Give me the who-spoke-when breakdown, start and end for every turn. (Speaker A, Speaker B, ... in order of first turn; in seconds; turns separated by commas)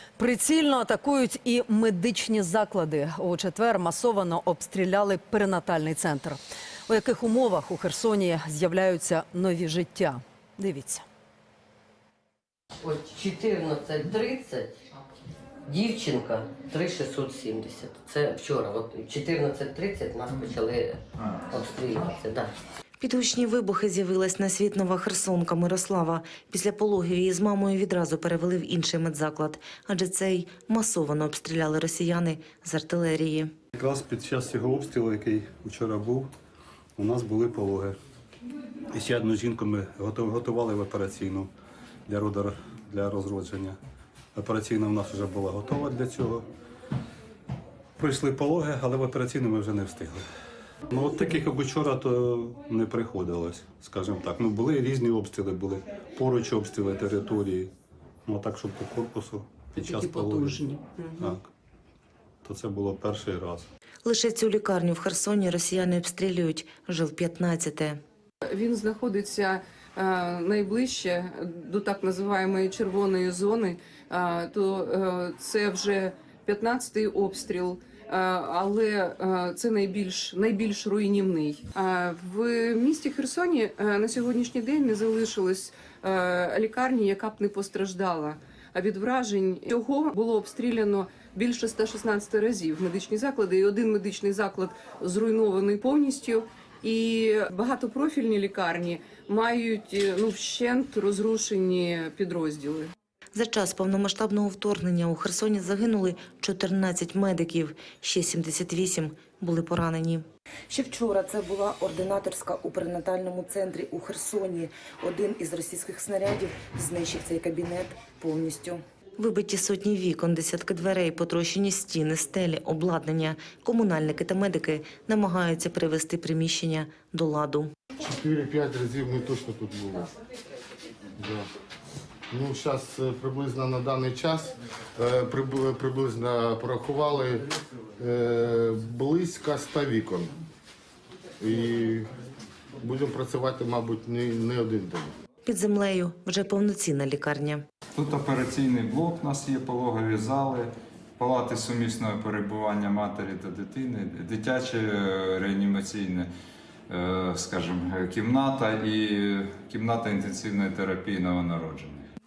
Speaker A: 0.2-11.0, Speaker B: 12.8-14.8, Speaker B: 15.7-22.5, Speaker C: 23.0-33.5, Speaker D: 33.7-36.3, Speaker D: 37.0-38.0, Speaker D: 38.9-41.5, Speaker D: 42.1-43.8, Speaker D: 44.3-46.5, Speaker D: 48.0-50.2, Speaker D: 50.9-57.7, Speaker D: 58.2-60.5, Speaker E: 59.8-61.3, Speaker D: 62.4-63.7, Speaker C: 64.0-68.0, Speaker E: 68.5-102.9, Speaker C: 103.3-127.7, Speaker F: 128.0-130.1, Speaker F: 131.2-131.5, Speaker F: 132.3-137.5, Speaker F: 138.0-140.3, Speaker F: 141.4-142.1, Speaker F: 142.8-145.1, Speaker C: 145.4-147.6, Speaker G: 147.9-156.3, Speaker G: 156.9-162.1